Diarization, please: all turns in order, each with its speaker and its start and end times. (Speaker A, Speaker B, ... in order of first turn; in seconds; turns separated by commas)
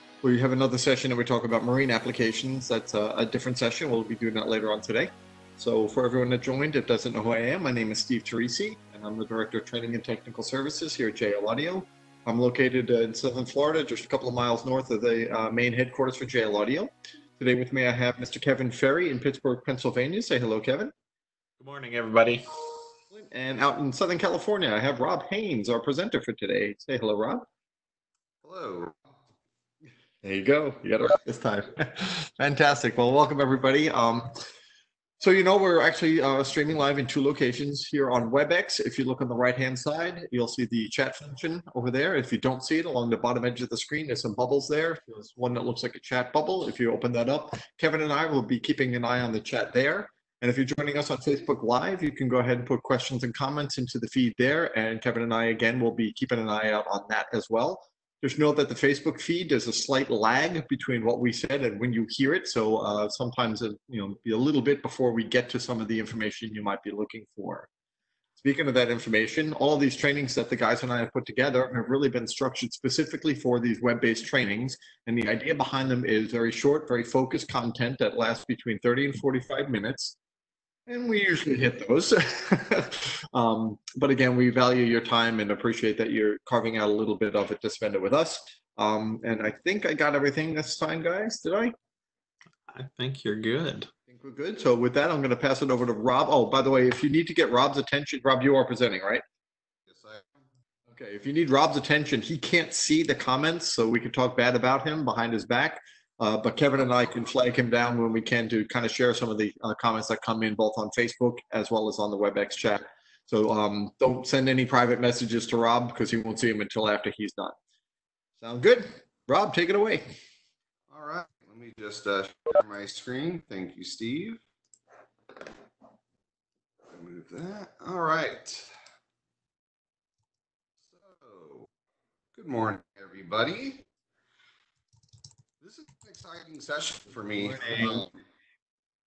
Speaker A: 0.2-20.9, Speaker B: 21.6-22.4, Speaker A: 23.1-27.5, Speaker C: 28.4-29.0, Speaker A: 30.2-34.3, Speaker A: 35.2-67.7, Speaker A: 68.4-80.2, Speaker A: 80.9-91.7, Speaker B: 92.7-93.9, Speaker A: 94.1-99.2, Speaker C: 99.9-100.3, Speaker A: 100.9-117.6, Speaker A: 118.4-120.0, Speaker C: 120.9-124.4, Speaker C: 126.9-128.7, Speaker C: 130.9-131.7, Speaker C: 132.3-133.8, Speaker C: 135.6-138.1, Speaker A: 137.4-138.1